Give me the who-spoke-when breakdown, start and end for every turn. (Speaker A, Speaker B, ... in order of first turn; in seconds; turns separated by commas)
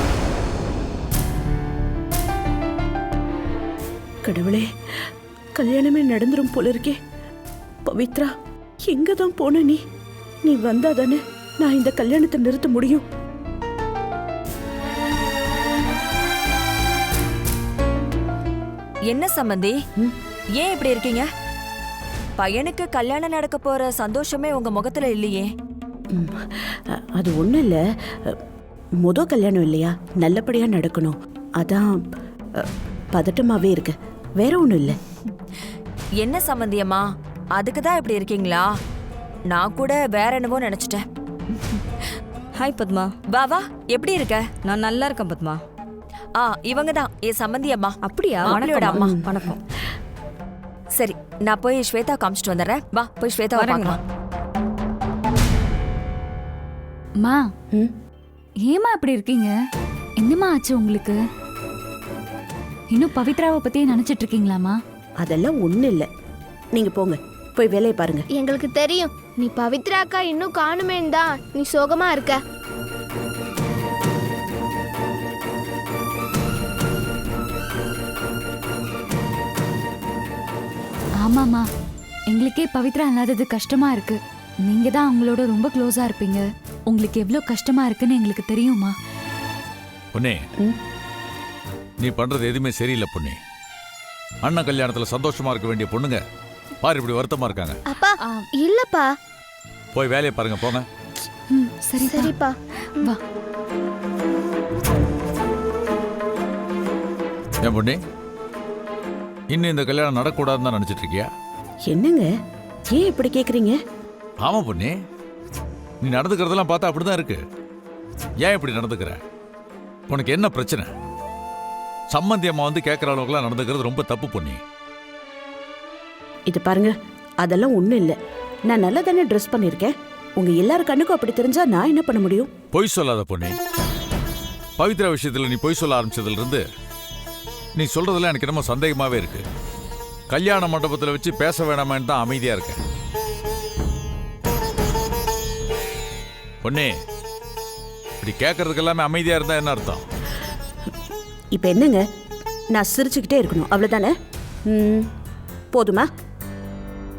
Speaker A: 4.2-4.7, Speaker A: 5.6-7.0, Speaker A: 7.8-8.3, Speaker A: 8.9-9.8, Speaker A: 10.4-13.0, Speaker B: 19.1-19.8, Speaker B: 20.6-21.3, Speaker B: 22.4-25.5, Speaker A: 26.1-28.4, Speaker A: 29.0-32.0, Speaker A: 32.6-35.0, Speaker B: 36.2-37.0, Speaker B: 37.5-38.7, Speaker B: 39.5-41.0, Speaker C: 42.6-43.1, Speaker B: 43.3-44.5, Speaker C: 44.6-45.6, Speaker B: 46.4-49.2, Speaker C: 48.0-49.6, Speaker A: 48.5-49.3, Speaker B: 51.0-54.0, Speaker C: 53.5-54.0, Speaker D: 57.2-57.5, Speaker D: 58.6-59.5, Speaker D: 60.2-61.2, Speaker D: 62.9-64.8, Speaker A: 65.2-66.1, Speaker A: 66.7-68.2, Speaker E: 68.3-72.4, Speaker D: 81.2-81.7, Speaker D: 82.3-88.9, Speaker F: 92.0-93.4, Speaker F: 94.4-96.2, Speaker F: 96.8-97.8, Speaker E: 97.9-99.1, Speaker F: 99.9-100.8, Speaker D: 101.5-102.4, Speaker E: 102.1-103.1, Speaker F: 107.6-108.0, Speaker F: 109.5-111.3, Speaker A: 111.9-112.3, Speaker A: 112.9-113.8, Speaker F: 114.4-114.9, Speaker F: 116.0-117.4, Speaker F: 118.4-119.2, Speaker F: 120.1-120.9, Speaker F: 122.1-124.6, Speaker A: 126.5-128.2, Speaker A: 128.7-132.5, Speaker F: 132.7-133.6, Speaker F: 134.8-136.6, Speaker F: 137.8-139.4, Speaker F: 140.3-142.8, Speaker F: 146.6-146.9, Speaker F: 148.2-150.0, Speaker A: 151.5-152.0, Speaker A: 152.7-154.1, Speaker A: 154.7-155.1, Speaker A: 155.7-156.1